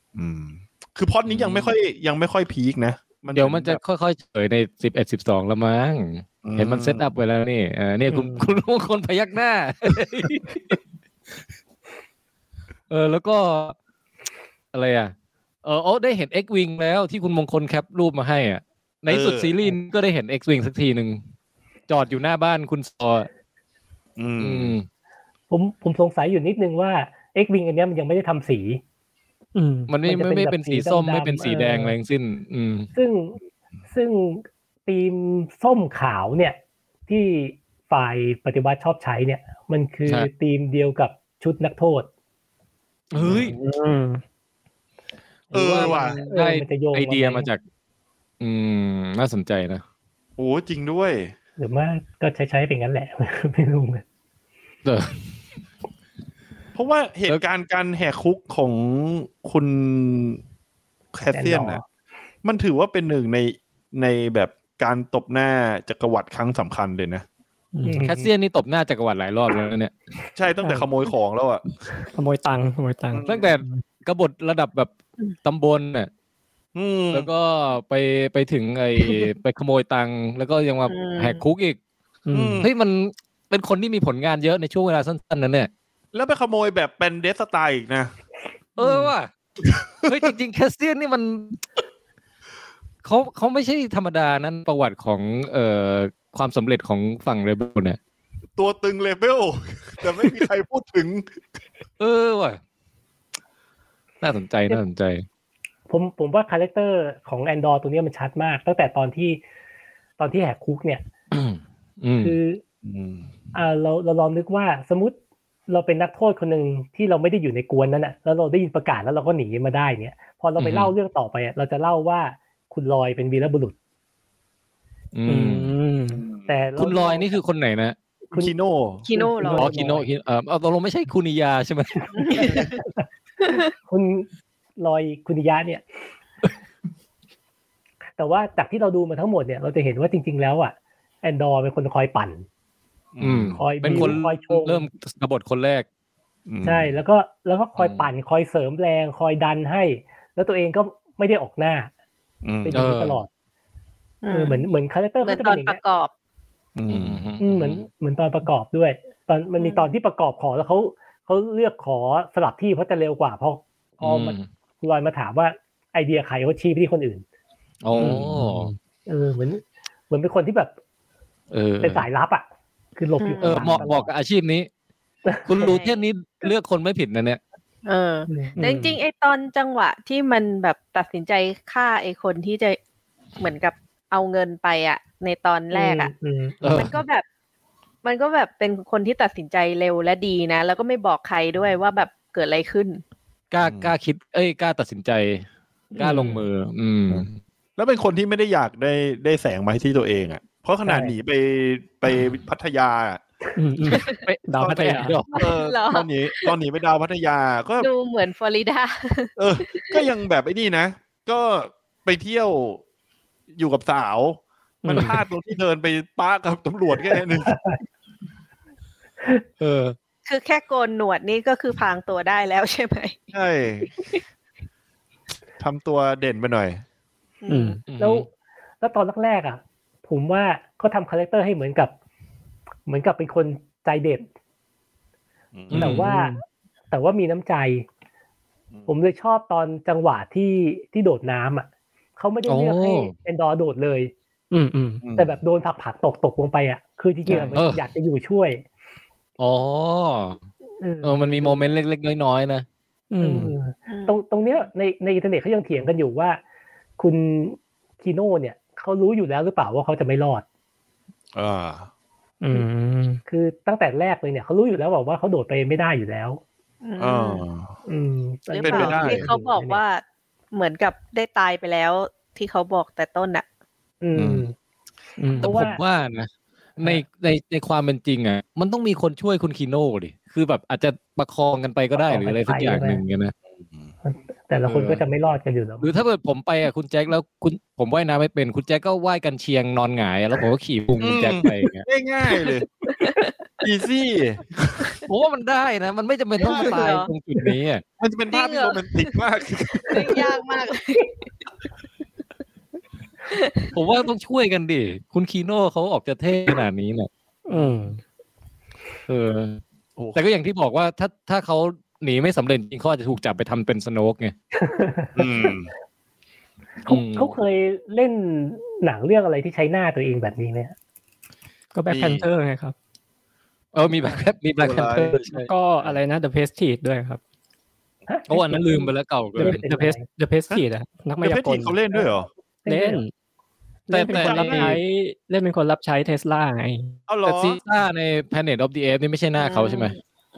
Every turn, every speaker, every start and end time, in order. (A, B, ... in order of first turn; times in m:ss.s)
0:00.1-0:03.8 A
0:01.3-0:01.7 B
0:03.3-0:10.7 B
0:06.4-0:07.1 A
0:08.1-0:08.4 C
0:12.9-0:13.7 B
0:14.7-0:21.2 B
0:19.1-0:19.5 A
0:21.9-0:23.3 B
0:24.2-0:24.7 A
0:24.4-0:24.8 B
0:25.5-0:28.8 D
0:29.5-0:29.9 C
0:29.9-0:32.9 B
0:30.0-0:31.9 D
0:32.9-0:33.4 D
0:33.9-0:42.1 D
0:43.1-0:43.6 B
0:43.2-0:43.4 A
0:43.2-0:44.2 C
0:45.5-0:47.5 D
0:45.5-0:47.6 B
0:45.5-0:46.2 A
0:48.4-0:49.8 B
0:50.4-0:51.3 A
0:51.6-0:54.0 D
0:54.8-0:55.1 B
0:56.8-1:00.4 A
1:01.1-1:01.8 A
1:01.3-1:01.8 D
1:02.4-1:07.2 A
1:07.7-1:08.0 C
1:07.8-1:08.3 D
1:08.0-1:09.9 B
1:10.4-1:11.6 A
1:10.6-1:10.9 C
1:12.1-1:13.8 C
1:13.1-1:13.5 A
1:13.3-1:14.9 B
1:15.4-1:16.1 B
1:16.7-1:17.3 A
1:17.1-1:21.8 B
1:20.9-1:21.4 E
1:22.2-1:22.7 C
1:22.3-1:22.7 A
1:22.6-1:25.7 B
1:26.1-1:28.1 A
1:28.8-1:29.3 B
1:28.8-1:29.1 C
1:29.7-1:30.1 A
1:30.0-1:31.6 B
1:33.0-1:38.0 B
1:38.6-1:41.4 A
1:42.0-1:42.6 B
1:44.2-1:45.2 B
1:45.9-1:49.4 D
1:50.2-1:51.0 D
1:51.3-1:52.4 B
1:52.2-1:52.6 D
1:52.8-1:53.3 A
1:53.5-1:55.2 D
1:55.7-2:03.8 D
2:00.6-2:00.9 B
2:05.1-2:05.8 B
2:05.3-2:06.2 C
2:06.1-2:06.6 A
2:06.5-2:07.3 D
2:06.8-2:08.0 B
2:08.3-2:09.0 A
2:09.0-2:09.7 E
2:09.1-2:10.0 D
2:09.5-2:12.7 B
2:12.1-2:12.7 E
2:12.3-2:15.9 D
2:13.4-2:13.7 E
2:18.2-2:22.4 D
2:23.1-2:24.2 A
2:23.2-2:25.8 B
2:23.5-2:24.8 D
2:26.5-2:26.9 A
2:26.6-2:31.9 D
2:27.8-2:28.1 B
2:32.4-2:32.8 A
2:32.6-2:33.3 D
2:32.7-2:33.2 B
2:34.2-2:34.7 E
2:34.3-2:35.8 D
2:35.2-2:36.1 E
2:36.8-2:37.2 A
2:36.9-2:37.9 B
2:37.4-2:47.2 D
2:39.6-2:39.9 E
2:44.0-2:44.4 B
2:47.8-2:48.7 B
2:48.0-2:48.2 A
2:48.0-2:48.7 C
2:49.0-2:50.7 D
2:51.5-2:52.1 B
2:51.8-2:52.4 D
2:53.0-2:54.1 D
2:53.2-2:53.8 E
2:53.4-2:54.7 B
2:55.2-2:55.8 D
2:55.4-2:57.4 B
2:55.6-2:56.0 E
2:57.8-3:02.8 E
2:58.3-2:58.6 D
2:58.6-2:59.0 C
3:03.4-3:06.1 E
3:05.7-3:07.0 D
3:06.6-3:06.9 B
3:06.6-3:07.2 E
3:08.0-3:13.0 E
3:13.5-3:15.4 B
3:13.6-3:13.9 A
3:16.0-3:16.4 C
3:16.0-3:17.4 B
3:17.1-3:23.2 A
3:20.8-3:21.1 C
3:23.6-3:25.2 C
3:23.9-3:24.2 E
3:24.2-3:25.4 B
3:24.7-3:27.9 A
3:25.3-3:26.5 E
3:27.8-3:30.0 E
3:29.4-3:32.8 A
3:33.6-3:37.6 A
3:34.8-3:35.2 C
3:37.5-3:37.8 D
3:39.6-3:40.0 B
3:40.2-3:43.3 E
3:43.3-3:43.9 A
3:45.6-3:46.8 A
3:47.4-3:47.8 E
3:47.5-3:47.8 C
3:47.9-3:48.3 B
3:48.0-3:48.3 D
3:48.8-3:51.9 D
3:52.9-3:54.3 D
3:55.5-3:56.0 A
3:55.7-3:56.1 B
3:55.7-3:56.4 D
3:56.0-3:56.4 C
3:56.9-3:57.8 D
3:58.9-4:04.1 D
4:02.4-4:03.1 B
4:04.5-4:05.0 C
4:05.0-4:05.4 A
4:05.1-4:08.6 D
4:07.3-4:07.6 C
4:07.3-4:07.8 B
4:09.4-4:10.4 B
4:10.8-4:11.6 D
4:11.0-4:12.6 B
4:13.1-4:13.5 C
4:13.2-4:16.4 D
4:13.9-4:14.2 E
4:17.0-4:20.4 D
4:21.3-4:21.9 A
4:22.4-4:23.2 C
4:23.3-4:26.4 D
4:26.8-4:27.4 E
4:27.0-4:27.7 A
4:27.8-4:29.8 D
4:28.5-4:33.4 E
4:28.6-4:29.3 A
4:34.0-4:34.5 D
4:34.2-4:34.4 A
4:35.2-4:35.5 C
4:35.4-4:35.8 D
4:35.4-4:43.3 B
4:42.0-4:43.0 D
4:44.0-4:45.9 D
4:44.6-4:45.0 B
4:45.8-4:51.8 B
4:51.0-4:52.7 A
4:52.4-4:53.3 E
4:53.6-4:55.0 A
4:55.0-4:57.8 B
4:56.4-4:57.1 E
4:56.4-4:56.8 A
4:58.0-5:00.2 A
4:58.3-4:59.2 E
4:59.8-5:01.2 E
4:59.9-5:00.2 D
5:03.3-5:03.7 E
5:03.7-5:07.1 B
5:07.5-5:08.0 C
5:09.1-5:09.6 B
5:10.0-5:10.2 A
5:10.1-5:14.3 B
5:14.5-5:15.6 D
5:15.2-5:15.7 A
5:16.8-5:20.7 D
5:16.8-5:17.4 B
5:21.7-5:22.7 C
5:21.9-5:22.2 A
5:23.7-5:25.5 B
5:24.6-5:25.2 A
5:25.3-5:27.2 C
5:28.1-5:30.0 D
5:28.3-5:29.7 B
5:29.4-5:31.8 C
5:31.2-5:32.3 A
5:32.6-5:33.0 D
5:32.7-5:33.1 C
5:33.9-5:37.0 C
5:33.9-5:34.8 B
5:34.1-5:34.8 A
5:37.1-5:37.6 A
5:37.2-5:40.0 B
5:39.4-5:40.0 E